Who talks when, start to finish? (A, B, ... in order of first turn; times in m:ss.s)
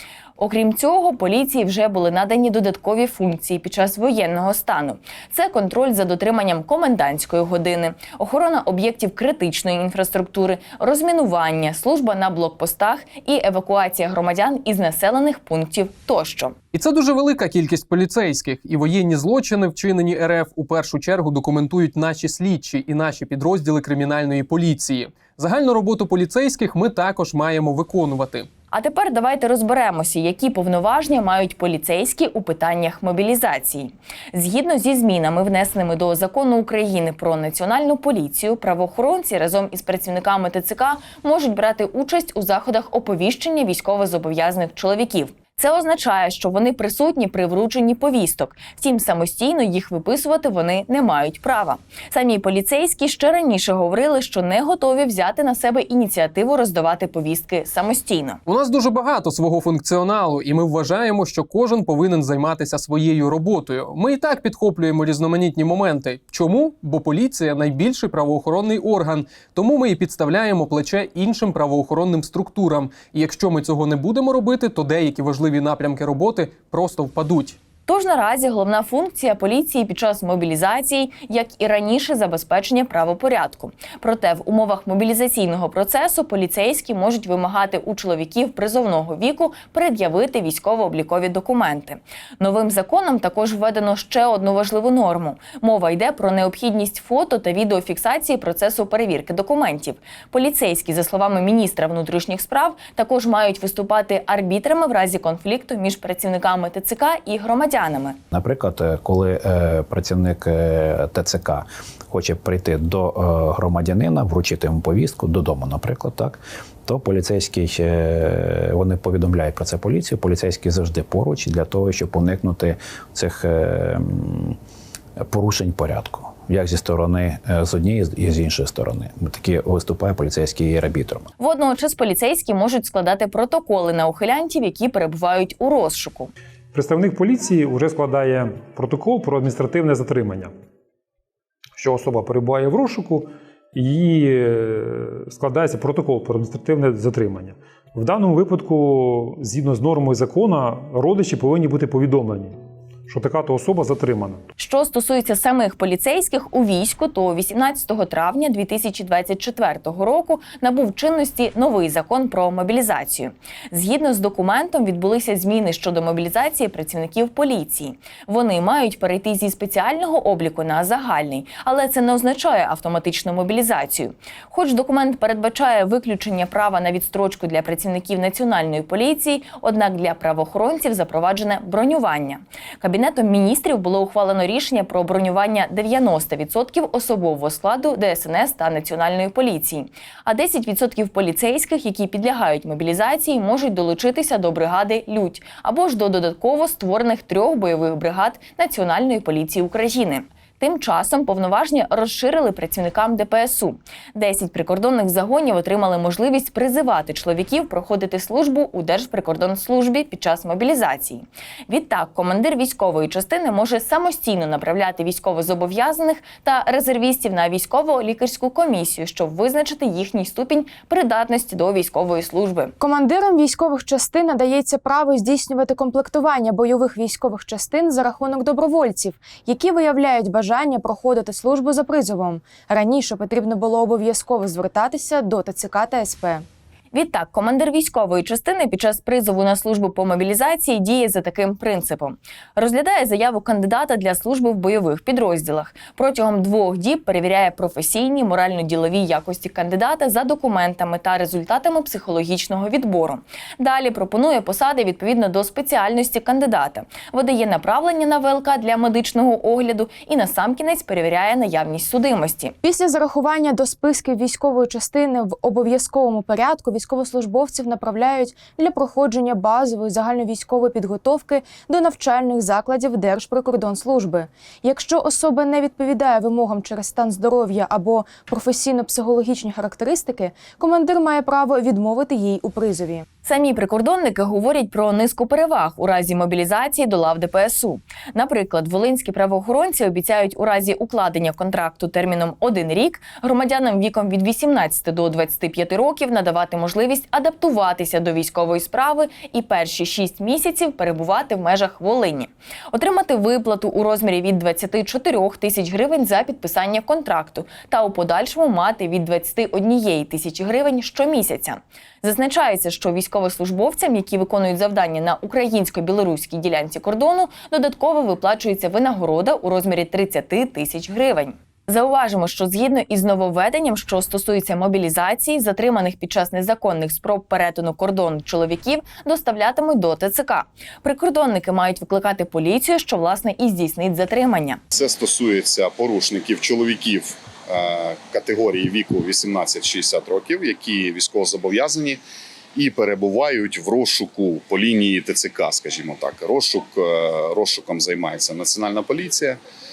0:00.4-0:16.6 A
0:16.7-0:28.5 B
0:28.7-0:58.4 A
0:58.5-1:17.6 B
1:17.9-1:48.2 A
1:48.3-2:04.6 C
2:05.2-2:11.3 C
2:11.4-2:16.3 A
2:16.7-2:20.5 D
2:21.8-2:32.6 D
2:33.1-2:34.4 D
2:34.6-3:42.7 A
3:42.8-3:56.4 E
3:56.9-4:22.6 A
4:22.6-4:43.0 E
4:43.2-5:34.6 A
5:34.7-5:42.0 F
5:42.6-5:49.4 F